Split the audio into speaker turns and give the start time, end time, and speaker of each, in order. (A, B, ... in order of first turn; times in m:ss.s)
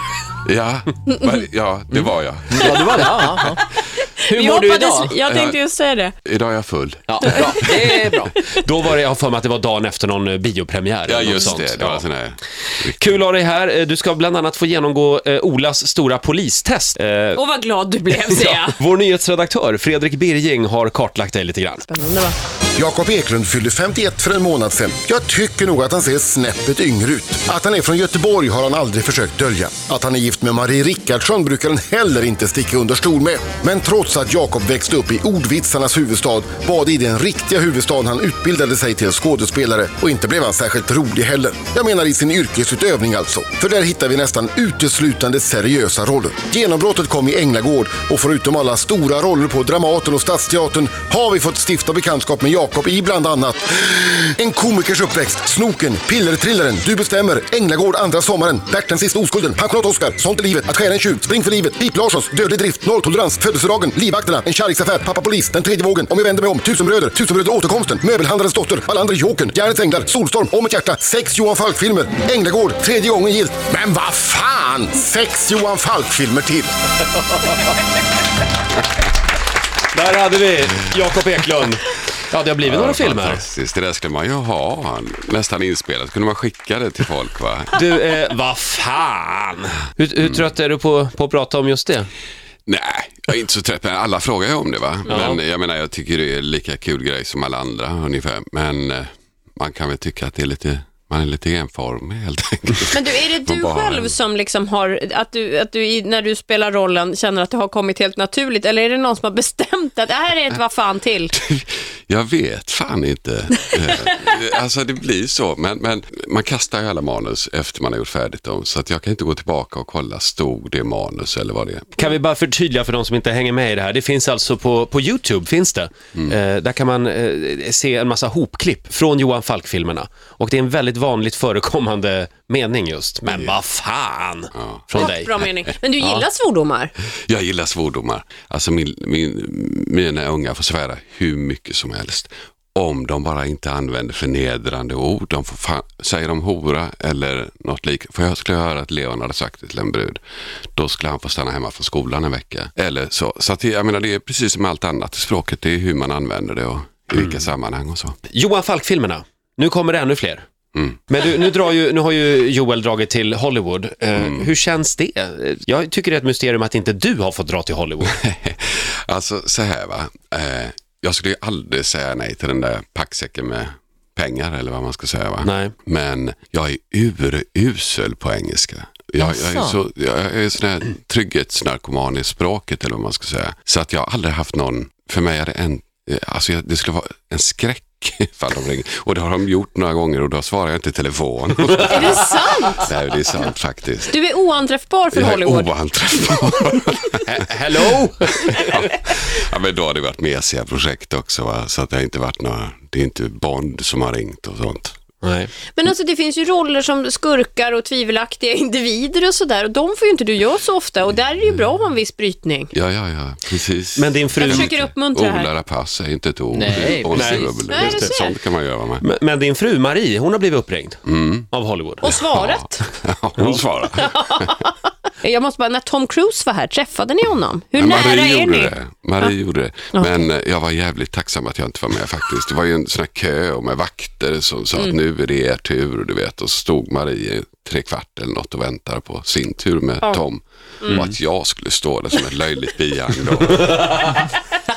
0:00.4-0:02.7 A
0:02.6-0:03.7 B
0:04.0-0:06.1 C
0:04.3-0:05.2 B
0:05.2-0:05.6 A
0:06.2-0:07.8 A
0:07.1-0:08.3 B
0:08.5-0:12.0 D
0:11.1-0:13.2 A
0:13.0-0:17.4 D
0:17.4-0:18.8 C
0:18.2-0:21.8 D
0:21.9-0:22.4 C
0:22.8-1:16.7 E
1:19.9-1:23.4 D
1:22.6-1:27.8 A
1:27.8-1:32.1 D
1:32.7-1:44.2 A
1:35.1-1:35.4 D
1:42.9-1:51.3 C
1:51.3-2:02.1 A
2:02.0-2:15.4 D
2:13.3-2:13.6 A
2:14.6-2:15.8 A
2:14.9-2:16.9 C
2:17.3-2:30.2 A
2:30.8-2:38.2 A
2:38.3-2:40.4 D
2:41.1-2:48.2 D
2:44.2-2:44.5 A
2:48.1-3:14.2 A
2:55.4-2:55.7 D
2:59.2-2:59.8 B
3:11.8-3:12.9 C
3:14.1-3:15.7 C
3:15.1-3:17.9 A
3:17.3-3:18.8 D
3:18.4-3:25.0 A
3:25.2-3:25.5 D
3:25.8-3:32.7 C
3:31.4-3:31.8 A
3:32.7-3:39.0 A
3:34.0-3:34.8 D
3:34.4-3:35.5 C
3:36.5-3:37.6 B
3:37.1-3:38.2 D
3:37.7-3:38.3 C
3:39.0-3:42.2 D
3:41.1-3:41.5 A
3:42.0-3:42.8 C
3:42.2-3:44.6 A
3:43.9-3:49.3 C
3:47.7-4:04.3 A